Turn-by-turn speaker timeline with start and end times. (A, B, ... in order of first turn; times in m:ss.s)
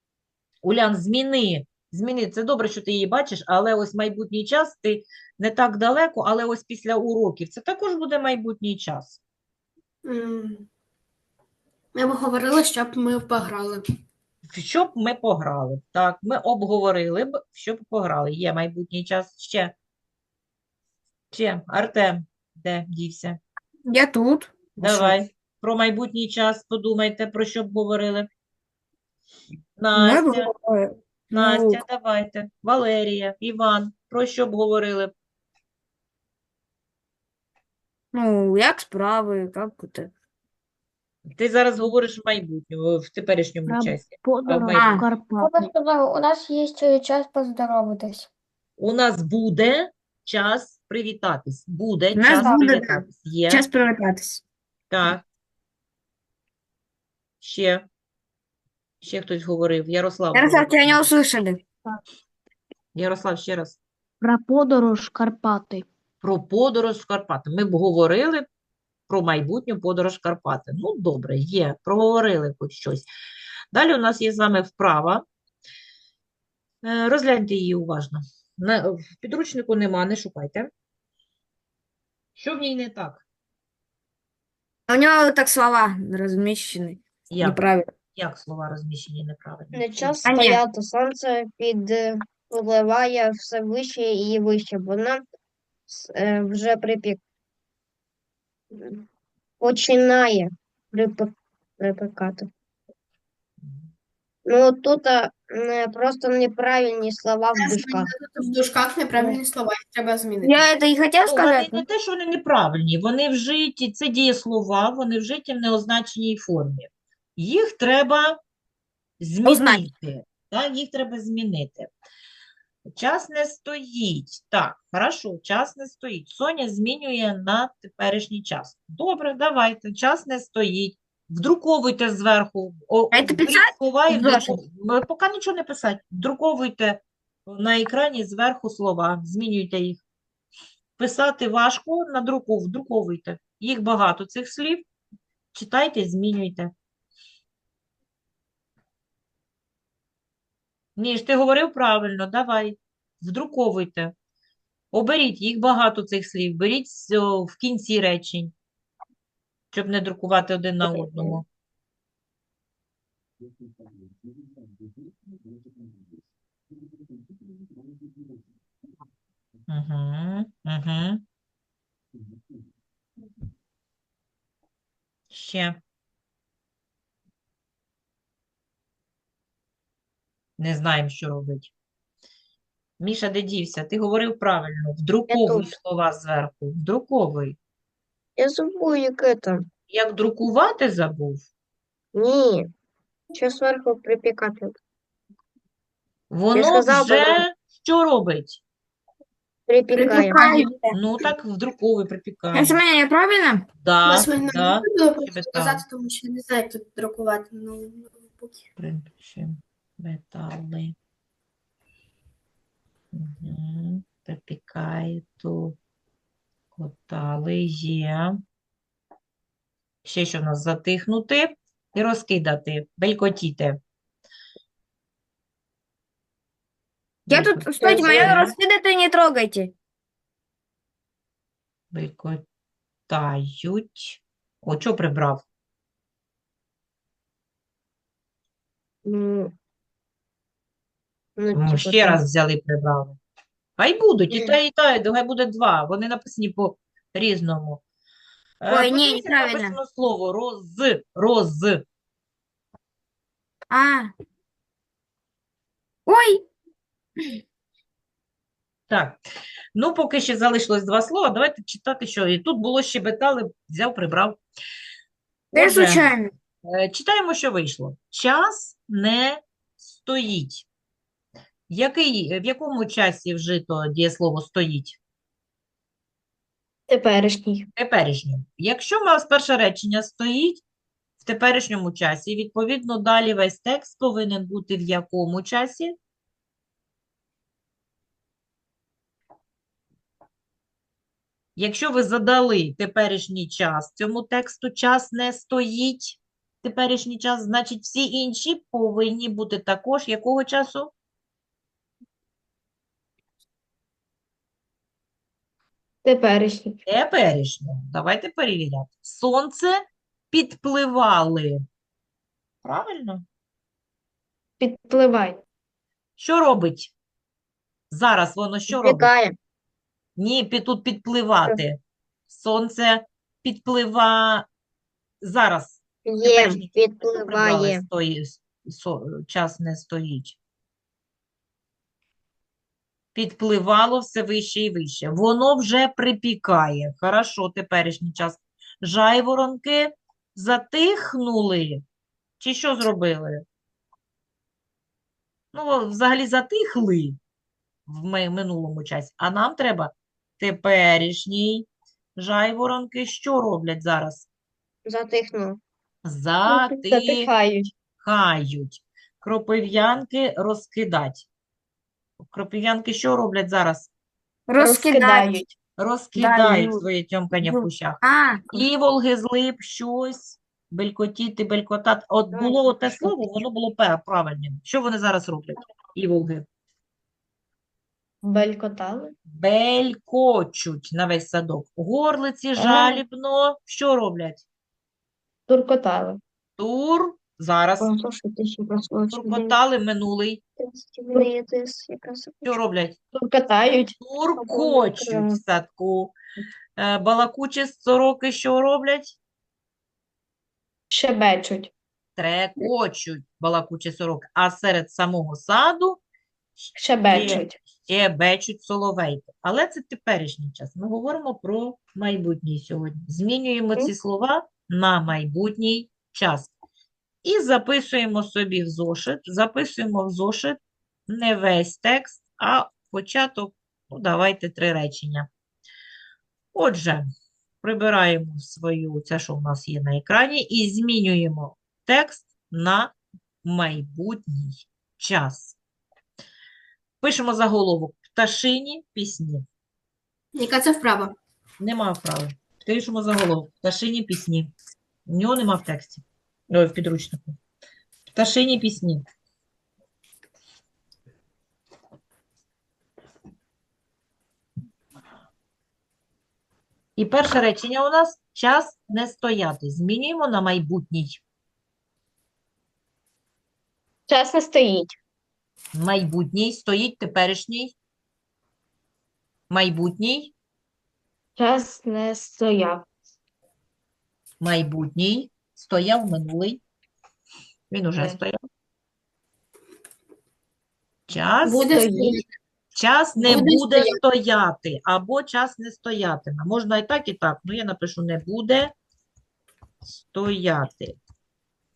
0:00.6-0:09.2 A
0:10.0-0:10.7 B
0:11.9-0:13.8 B
0:14.5-0:19.7 A
0:21.3-0:23.4 A
0:23.9-0:25.2 C
0:24.8-0:28.3 A
0:29.8-0:30.5 A
0:29.9-0:31.8 C
0:31.3-0:35.1 A
0:38.1-0:40.1 C
0:41.3-0:45.1 A
0:43.6-0:45.7 D
0:44.7-0:48.3 C
0:48.8-0:53.6 A
0:52.1-0:54.4 C
0:54.9-0:55.2 A
0:57.4-0:57.8 A
0:59.0-1:01.1 A
1:00.3-1:01.6 C
1:02.9-1:03.8 A
1:04.2-1:05.8 D
1:06.2-1:08.4 A
1:09.1-1:13.1 A
1:13.7-1:15.2 A
1:16.8-1:20.7 A
1:22.4-1:23.2 A
1:24.9-1:27.9 C
1:27.3-1:27.6 A
1:28.1-1:30.1 A
1:29.7-1:35.2 E
1:30.2-1:30.6 C
1:35.9-1:37.2 E
1:38.7-1:39.0 E
1:39.6-1:42.5 E
1:43.6-1:43.9 A
1:44.4-1:48.1 E
1:47.5-1:50.7 B
1:50.4-1:51.8 C
1:51.2-1:58.4 A
1:59.2-2:01.9 A
1:59.4-1:59.8 C
2:02.9-2:20.0 A
2:13.1-2:14.6 C
2:21.0-2:24.9 A
2:25.5-2:26.7 A
2:31.0-2:34.1 A
2:34.9-2:38.5 A
2:39.7-2:41.4 A
2:49.7-2:51.2 A
2:55.3-2:55.8 A
3:00.6-3:01.7 A
3:03.0-3:07.6 A
3:05.3-3:05.7 E
3:08.4-3:09.6 E
3:09.9-3:11.5 A
3:12.1-3:12.7 E
3:13.3-3:14.8 E
3:16.3-3:18.6 A
3:16.5-3:17.4 E
3:19.7-3:20.4 E
3:19.9-3:20.9 B
3:20.0-3:20.9 C
3:20.9-3:22.8 A
3:22.5-3:23.6 C
3:23.8-3:25.8 A
3:24.0-3:28.6 B
3:28.8-3:30.9 A
3:33.1-3:35.8 A
3:36.7-3:38.4 A
3:40.0-3:43.8 A
3:47.2-3:48.5 A
3:47.3-3:49.7 C
3:47.8-3:48.4 E
3:51.9-3:52.4 A
3:53.1-3:55.4 A
3:59.0-3:59.5 E
4:01.4-4:02.2 E
4:01.5-4:03.2 A
4:03.8-4:07.8 A
4:08.6-4:11.8 A
4:08.7-4:09.8 C
4:13.7-4:14.1 C
4:16.1-4:16.4 C
4:18.9-4:19.2 A
4:19.7-4:24.4 A
4:25.5-4:26.1 A
4:25.5-4:26.3 C
4:26.6-4:30.6 A
4:31.7-4:35.0 A
4:36.9-4:37.7 F
4:37.8-4:40.6 A
4:41.2-4:45.9 A
4:51.6-5:00.9 A
5:06.0-5:06.8 F
5:06.9-5:11.6 A
5:12.6-5:13.2 A
5:14.6-5:15.4 F
5:16.2-5:16.9 A
5:17.9-5:19.1 A
5:18.7-5:19.4 E
5:20.2-5:24.5 A
5:25.2-5:30.4 A
5:26.0-5:27.8 E
5:33.1-5:41.8 A
5:42.4-5:43.4 A
5:45.5-5:47.2 A
5:47.8-5:54.3 A
5:54.8-5:55.6 E
5:56.0-5:57.3 A
5:56.5-5:57.7 F
5:58.0-6:01.3 A
6:02.2-6:03.9 A
6:04.5-6:05.4 C
6:04.6-6:05.5 F
6:05.8-6:16.5 A
6:06.2-6:06.8 C
6:07.4-6:08.6 C
6:18.2-6:19.1 F
6:19.3-6:24.4 A
6:22.6-6:23.0 F
6:25.5-6:26.2 F
6:26.6-6:27.9 A
6:27.8-6:29.6 F
6:29.1-6:30.4 A
6:30.6-6:32.6 E
6:32.4-6:33.0 A
6:33.1-6:35.4 F
6:34.0-6:36.1 A
6:36.8-6:39.2 A
6:40.9-6:41.7 F
6:42.2-6:46.0 A
6:46.6-6:56.5 A
6:46.8-6:47.6 F
6:57.2-7:05.3 A
7:06.5-7:07.1 A
7:07.6-7:15.6 A
7:17.0-7:19.4 A
7:20.3-7:21.1 B
7:21.6-7:24.5 A
7:25.1-7:27.4 A
7:28.1-7:29.0 A
7:37.0-7:41.2 A
7:44.1-7:45.0 F
7:45.7-7:47.7 A
7:49.5-7:50.3 A
7:51.4-7:52.8 F
7:54.4-7:56.6 A
7:57.7-7:58.4 A
8:01.1-8:01.7 A
8:01.4-8:02.2 F
8:01.4-8:02.2 B
8:02.7-8:08.7 A
8:03.2-8:04.0 B
8:09.8-8:11.0 A